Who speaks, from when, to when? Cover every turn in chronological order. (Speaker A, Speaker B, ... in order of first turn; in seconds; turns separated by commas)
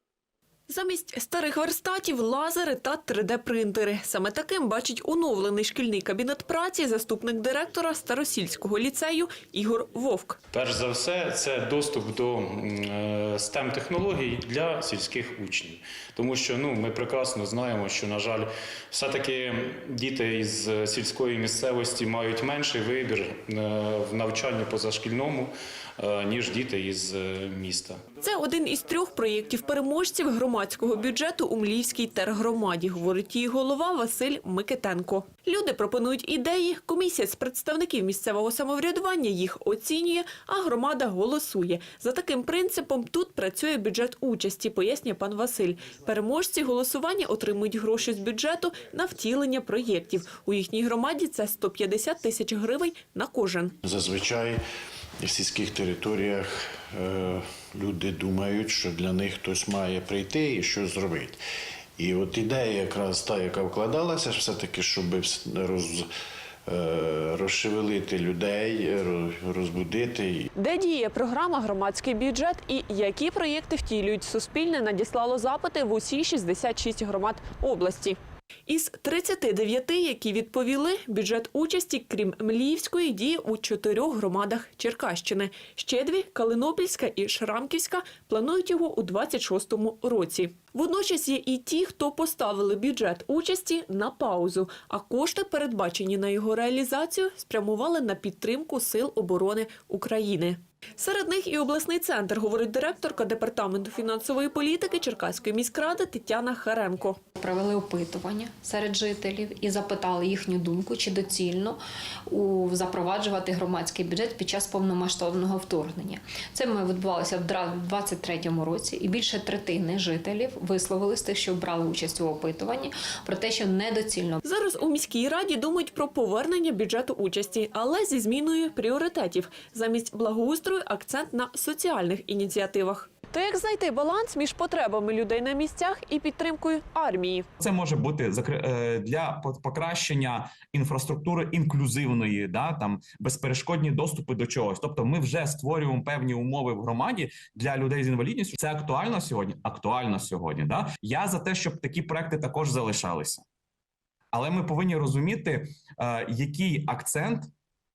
Speaker A: 0.7-10.4, Speaker B: 10.5-28.0, Speaker A: 28.2-53.7, Speaker C: 53.8-54.6, Speaker C: 55.2-61.4, Speaker C: 62.0-66.1, Speaker C: 66.7-70.5, Speaker A: 70.5-107.2, Speaker D: 107.4-124.4, Speaker A: 124.4-137.5, Speaker E: 137.6-153.4, Speaker E: 154.3-157.5